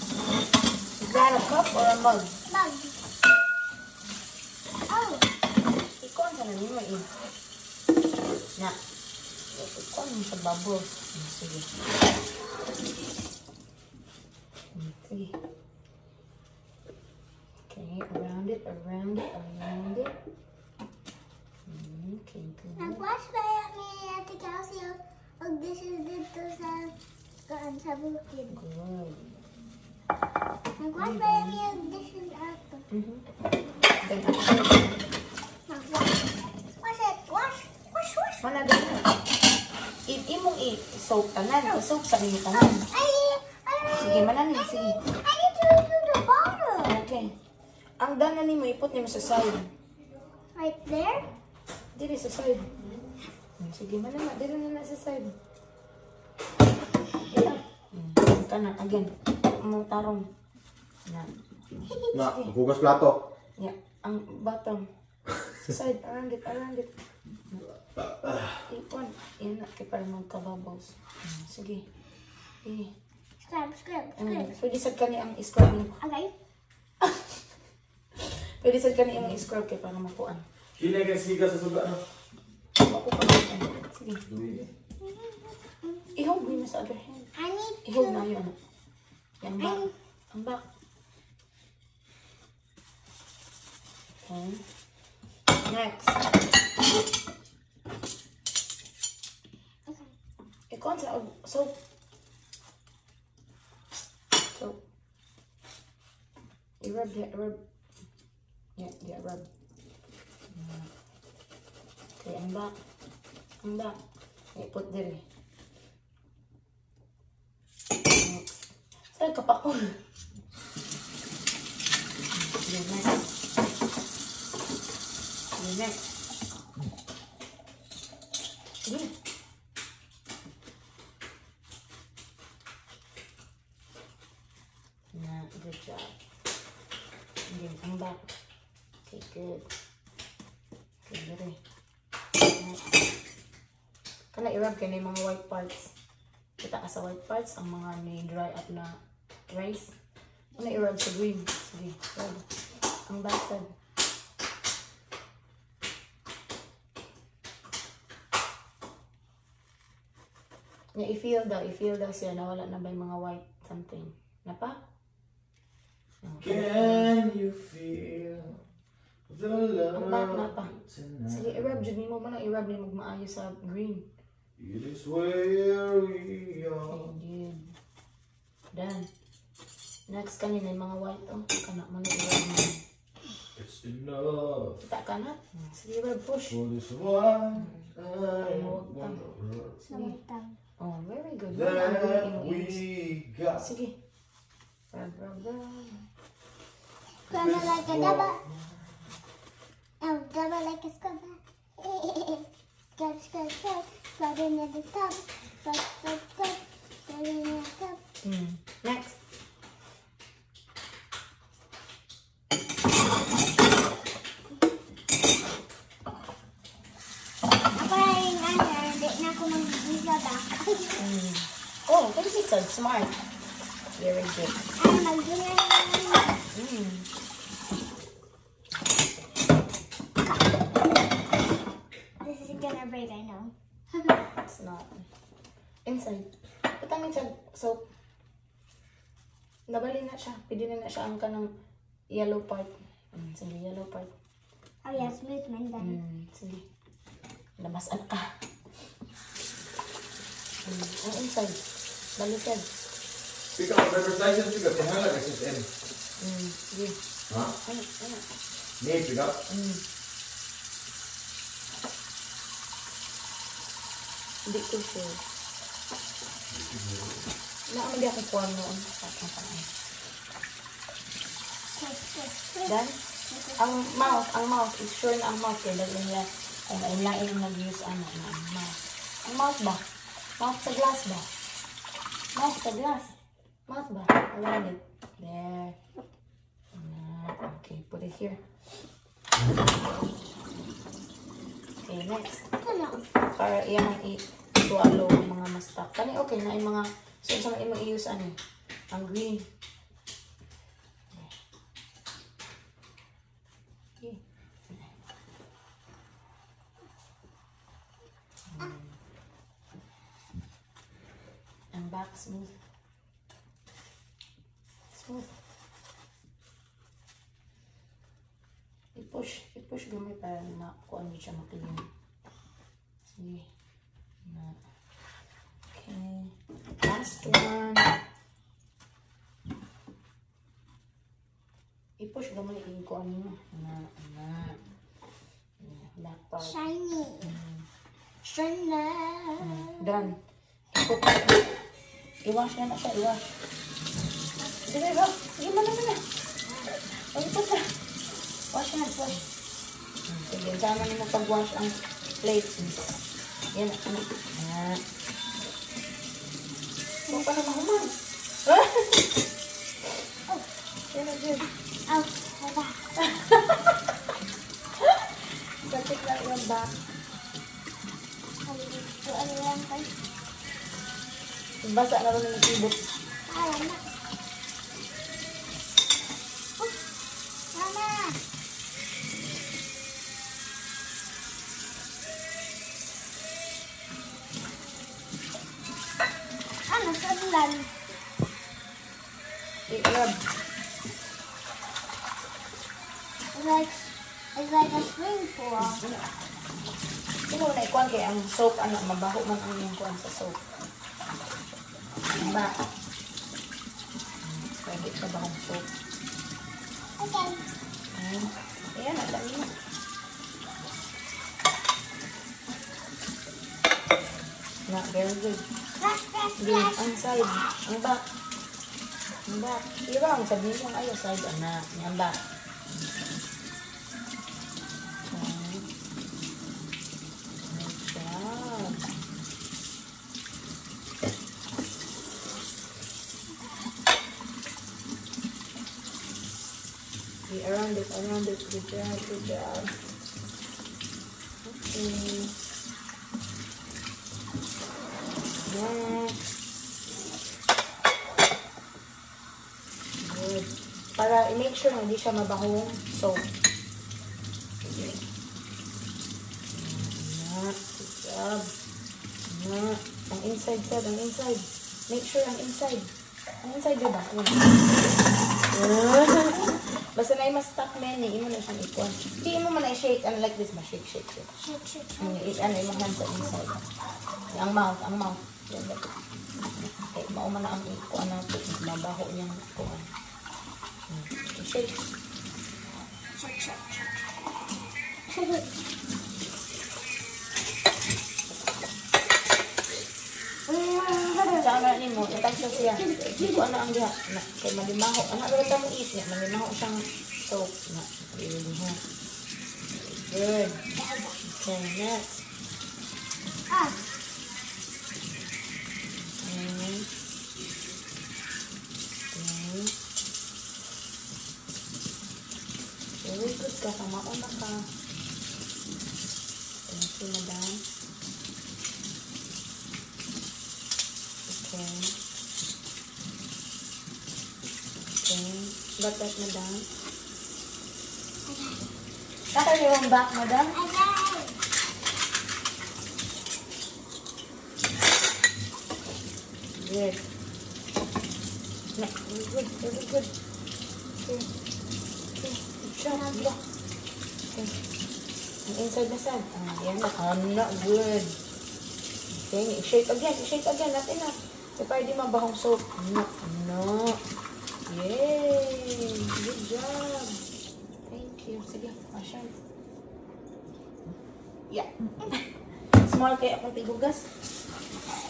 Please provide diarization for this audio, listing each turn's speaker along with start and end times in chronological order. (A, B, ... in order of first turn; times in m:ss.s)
0:01.0-0:02.4 A
0:02.5-0:03.0 B
0:04.9-0:05.3 B
0:06.0-0:07.1 A
0:09.5-0:11.7 A
0:14.7-0:15.4 A
0:17.7-0:20.1 A
0:21.6-0:23.0 A
0:22.8-0:26.9 B
0:27.5-0:28.6 B
0:28.5-0:29.2 A
0:30.8-0:32.8 B
0:31.0-0:31.6 A
0:32.9-0:33.2 A
0:34.0-0:35.0 A
0:35.7-0:36.2 B
0:36.8-0:38.4 B
0:38.4-0:39.1 A
0:40.0-0:42.8 A
0:42.5-0:47.0 B
0:43.9-0:45.0 A
0:46.8-0:47.3 A
0:48.0-0:49.7 A
0:50.5-0:51.3 B
0:51.9-0:52.8 A
0:53.6-0:55.3 A
0:57.3-0:57.6 B
0:57.9-1:00.3 A
1:02.1-1:03.2 C
1:02.1-1:02.5 A
1:03.6-1:04.9 A
1:05.6-1:06.9 A
1:08.0-1:08.4 C
1:08.7-1:11.8 A
1:12.6-1:12.9 A
1:13.4-1:14.5 B
1:14.2-1:16.0 A
1:16.0-1:16.3 B
1:17.0-1:17.4 A
1:18.2-1:20.4 A
1:20.8-1:22.0 C
1:22.8-1:24.2 A
1:24.3-1:24.7 C
1:25.0-1:26.4 B
1:26.1-1:27.3 A
1:27.3-1:28.2 B
1:27.8-1:28.5 A
1:29.4-1:30.6 A
1:29.6-1:29.9 B
1:34.2-1:34.6 A
1:35.6-1:36.2 A
1:39.9-1:40.1 B
1:40.7-1:41.8 A
1:44.5-1:44.8 A
1:46.8-1:47.6 A
1:48.8-1:49.5 A
1:50.5-1:50.9 A
1:52.2-1:52.7 A
1:53.6-1:54.0 A
1:54.5-1:55.2 A
1:58.1-1:58.5 A
1:59.1-2:00.0 A
2:02.3-2:03.2 A
2:05.6-2:06.0 A
2:08.8-2:09.1 A
2:15.1-2:16.2 A
2:17.5-2:18.3 A
2:19.0-2:19.7 A
2:21.0-2:21.6 A
2:22.5-2:22.8 A
2:24.3-2:25.9 A
2:26.6-2:29.9 A
2:30.6-2:32.4 A
2:33.1-2:33.7 A
2:40.9-2:44.8 A
2:46.2-2:47.1 A
2:46.4-2:48.6 C
2:49.3-2:51.8 C
2:49.9-2:50.7 A
2:51.3-2:54.0 A
2:54.6-2:57.1 C
2:56.9-2:57.7 A
2:58.7-2:59.1 A
3:00.1-3:02.8 A
3:03.5-3:04.8 C
3:04.8-3:06.6 A
3:06.5-3:09.8 C
3:07.6-3:07.9 A
3:08.4-3:09.2 A
3:09.8-3:10.6 B
3:09.9-3:10.2 A
3:10.8-3:12.8 A
3:11.5-3:13.7 C
3:13.6-3:14.0 A
3:14.9-3:16.0 A
3:17.3-3:18.4 B
3:17.3-3:18.9 C
3:20.0-3:28.0 B
3:28.2-3:29.2 A
3:37.8-3:41.0 B
3:41.0-3:43.1 A
3:44.0-3:44.6 A
3:44.8-3:46.3 B
3:46.5-3:47.1 A
3:52.2-3:54.2 B
3:54.4-3:55.0 A
3:55.8-3:57.8 A
3:59.7-4:01.5 A
4:02.1-4:04.1 A
4:04.8-4:06.0 B
4:05.8-4:06.6 A
4:07.6-4:08.3 A
4:10.6-4:11.6 A
4:12.2-4:12.7 A
4:13.5-4:15.7 C
4:16.2-4:17.0 A
4:17.6-4:18.2 A
4:18.8-4:19.4 C
4:19.5-4:19.8 A
4:24.4-4:25.2 A
4:26.5-4:27.2 C
4:27.7-4:29.7 A
4:31.7-4:32.8 B
4:32.6-4:33.0 A
4:33.3-4:34.2 B
4:33.6-4:39.8 A
4:40.4-4:41.3 A
4:42.3-4:43.1 A
4:43.7-4:45.8 A
4:46.7-4:48.4 A
4:51.8-4:52.4 A
4:52.6-4:53.0 B
4:53.3-4:58.4 A
4:58.9-4:59.4 A
5:08.5-5:08.9 A
5:11.7-5:12.5 A
5:14.9-5:15.3 A
5:18.9-5:21.9 A
5:23.1-5:23.4 A
5:24.2-5:24.6 A
5:25.7-5:27.9 A
5:32.0-5:34.6 A
5:35.6-5:36.6 A
5:36.4-5:37.4 B
5:37.2-5:37.6 A
5:38.2-5:40.1 B
5:39.4-5:40.2 A
5:40.7-5:41.5 A
5:42.2-5:43.3 A
5:44.6-5:46.0 A
5:46.7-5:47.8 A
5:48.5-5:49.2 A
5:50.1-5:53.0 A
5:53.5-5:54.8 A
5:57.1-5:57.8 B
5:57.1-5:59.1 A
6:00.9-6:01.5 A
6:01.9-6:02.8 B
6:03.0-6:03.7 A
6:05.6-6:06.8 A
6:08.4-6:09.9 B
6:11.6-6:12.8 A
6:13.3-6:13.8 B
6:17.5-6:18.2 B
6:26.7-6:27.7 B
6:29.7-6:30.2 A
6:33.3-6:35.8 B
6:35.6-6:36.1 A
6:37.3-6:40.4 A
6:42.1-6:42.6 A
6:44.2-6:45.7 A
6:47.0-6:47.4 B
6:47.9-6:49.5 A
6:54.7-6:55.4 A
6:55.8-6:57.4 B
6:56.4-6:58.0 A
6:59.2-7:02.2 A
7:05.0-7:05.7 A
7:07.4-7:08.8 A
7:17.3-7:19.7 A
7:21.4-7:22.3 A
7:25.4-7:26.2 A
7:30.0-7:33.2 A
7:34.6-7:35.0 A
7:36.5-7:38.5 A
7:39.3-7:42.9 A
7:43.4-7:44.5 A
7:45.5-7:51.3 A
7:51.3-7:53.3 B
7:52.0-7:53.6 A
7:54.3-7:55.9 A
7:56.8-7:59.9 A
8:00.9-8:01.8 A
8:03.2-8:03.7 B
8:05.1-8:05.4 B
8:10.5-8:13.4 B
8:11.3-8:18.8 A
8:19.7-8:20.6 A
8:20.8-8:21.2 B
8:21.2-8:22.2 A
8:23.5-8:23.7 B
8:26.2-8:26.9 A
8:29.1-8:29.8 A
8:33.0-8:34.7 A
8:36.7-8:37.6 A
8:41.3-8:41.9 A
8:45.0-8:46.7 A
8:48.2-8:48.6 B
8:49.3-8:50.6 A
8:50.5-8:51.4 B
8:56.5-8:57.0 A
8:58.8-9:00.1 A
9:00.9-9:01.3 A
9:02.2-9:03.4 A
9:02.9-9:03.3 B
9:04.3-9:04.6 A
9:05.4-9:08.2 A
9:09.1-9:14.0 A
9:14.7-9:17.2 A
9:17.8-9:19.4 A
9:21.5-9:24.1 A